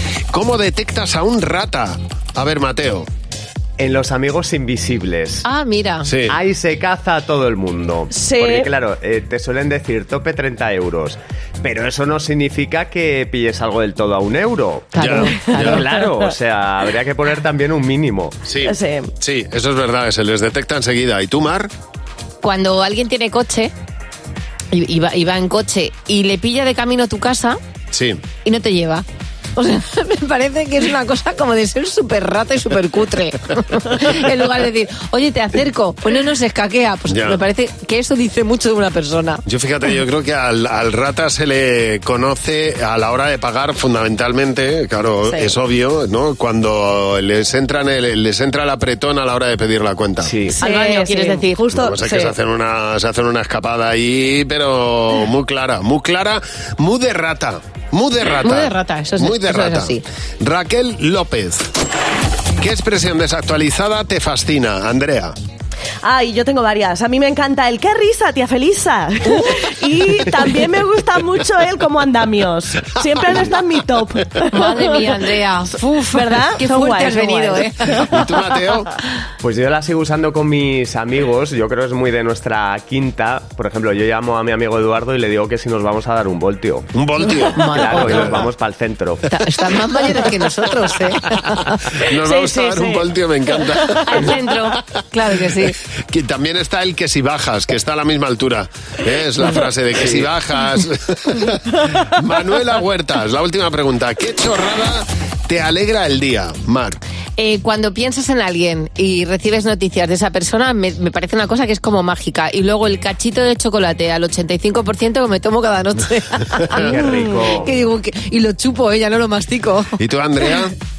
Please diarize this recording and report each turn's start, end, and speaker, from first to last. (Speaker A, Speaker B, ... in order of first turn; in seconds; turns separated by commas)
Speaker A: 0.3-3.1, Speaker B: 3.8-5.5, Speaker C: 5.4-6.1, Speaker A: 6.0-6.4, Speaker B: 6.3-18.4, Speaker D: 8.1-8.7, Speaker C: 14.9-15.9, Speaker A: 15.0-15.8, Speaker A: 18.5-21.7, Speaker D: 18.6-19.1, Speaker C: 22.4-23.7, Speaker C: 24.7-27.6, Speaker A: 27.9-28.2, Speaker C: 28.4-39.4, Speaker A: 37.1-37.4, Speaker A: 39.5-50.4, Speaker C: 45.2-45.5, Speaker B: 50.2-50.6, Speaker C: 50.5-51.7, Speaker D: 50.6-52.3, Speaker A: 51.7-61.7, Speaker C: 58.4-60.0, Speaker A: 62.6-65.4, Speaker D: 66.0-75.1, Speaker C: 74.5-78.3, Speaker D: 76.0-77.7, Speaker A: 77.8-78.9, Speaker B: 79.4-86.9, Speaker A: 86.9-88.4, Speaker C: 87.3-88.5, Speaker B: 87.5-89.3, Speaker C: 89.3-91.7, Speaker A: 90.0-90.3, Speaker A: 91.3-94.8, Speaker D: 92.1-94.3, Speaker C: 94.0-95.8, Speaker A: 95.5-107.0, Speaker B: 100.0-100.3, Speaker C: 107.4-120.0, Speaker B: 116.7-117.8, Speaker A: 120.0-120.8